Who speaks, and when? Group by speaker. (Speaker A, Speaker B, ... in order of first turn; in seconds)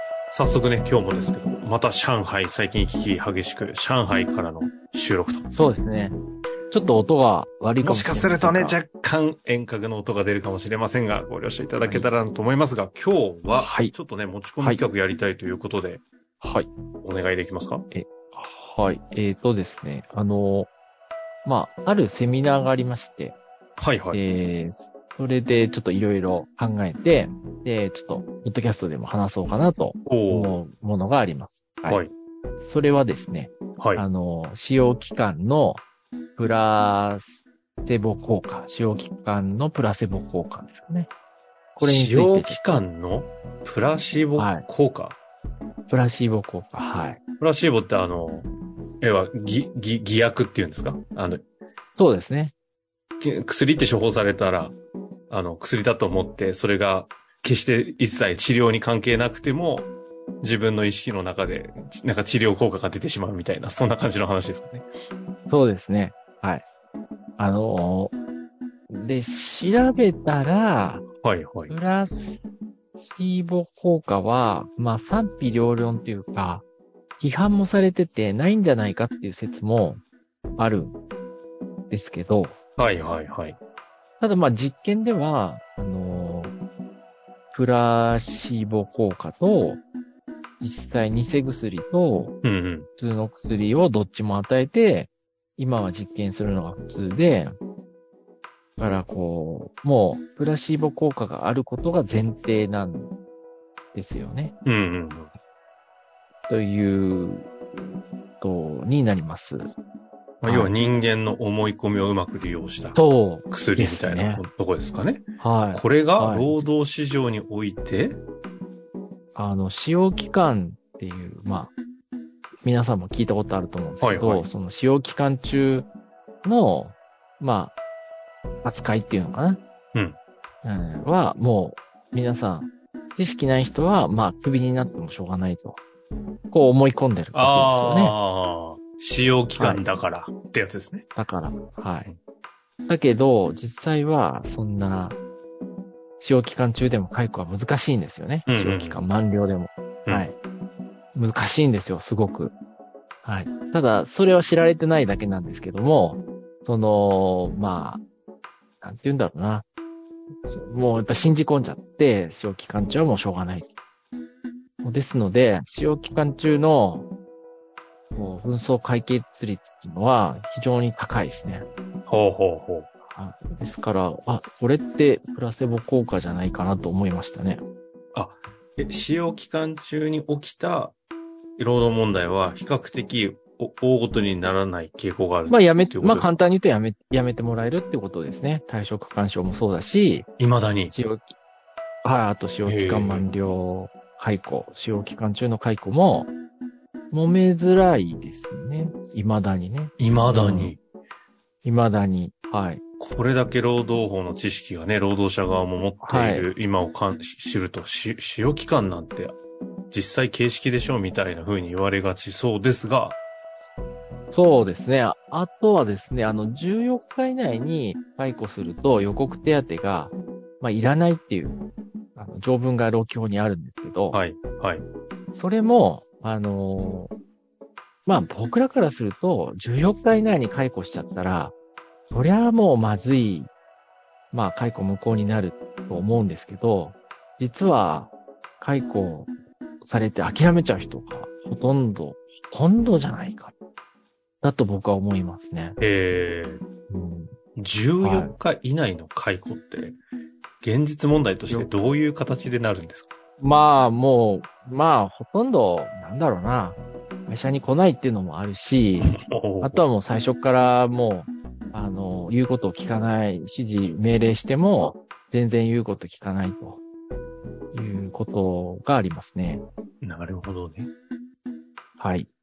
Speaker A: 0.3-5.5, 7.8-16.0, 17.0-17.8, 23.8-24.2, 30.0-30.6, 33.8-34.0, 41.8-45.2, 47.4-48.5, 49.0-51.4, 53.2-54.8, 55.3-59.9, 60.4-64.8, 71.2-71.8, 82.8-83.6, 92.4-92.9, 104.6-105.3, 110.4-118.2, 124.0-124.5, 137.3-141.1, 148.4-149.0, 172.1-172.9, 178.1-180.9, 181.6-186.4, 190.4-190.9, 192.6-193.3, 200.0-200.8, 203.0-209.4, 209.9-213.2, 224.1-224.8, 245.8-246.6, 247.6-250.0, 250.6-253.1, 259.0-259.8, 270.0-270.9
Speaker B: 5.5-6.2, 6.7-8.8, 13.6-13.9, 14.6-14.8, 16.4-16.7, 17.9-20.7, 21.4-23.4, 24.1-32.0, 32.6-35.8, 36.4-41.1, 41.8-42.8, 44.4-44.6, 45.9-47.2, 51.9-52.5, 65.5-66.6, 67.4-68.1, 68.9-71.0, 71.7-72.4, 72.9-76.6, 77.2-80.0, 80.6-81.0, 81.9-82.6, 84.2-86.5, 87.5-89.8, 90.6-92.3, 93.0-97.6, 98.8-103.1, 103.9-104.5, 106.5-109.7, 110.4-110.7, 112.9-114.4, 115.4-116.7, 119.3-121.7, 122.6-125.9, 126.4-127.7, 128.6-129.6, 130.6-135.8, 136.5-138.1, 139.6-139.8, 141.2-142.1, 142.9-145.2, 146.2-150.3, 151.1-152.5, 153.2-158.0, 158.8-159.6, 160.4-163.7, 164.8-167.1, 168.1-171.7, 173.1-177.6, 185.5-190.3, 190.9-191.3, 192.0-196.3, 197.1-200.7, 201.6-202.8, 206.0-206.5, 214.3-221.6, 222.1-224.2, 225.3-227.1, 228.1-231.5, 232.1-233.5, 234.3-243.5, 244.4-245.8, 246.9-247.3, 248.0-248.3, 253.4-266.8, 267.7-269.6, 272.0-272.3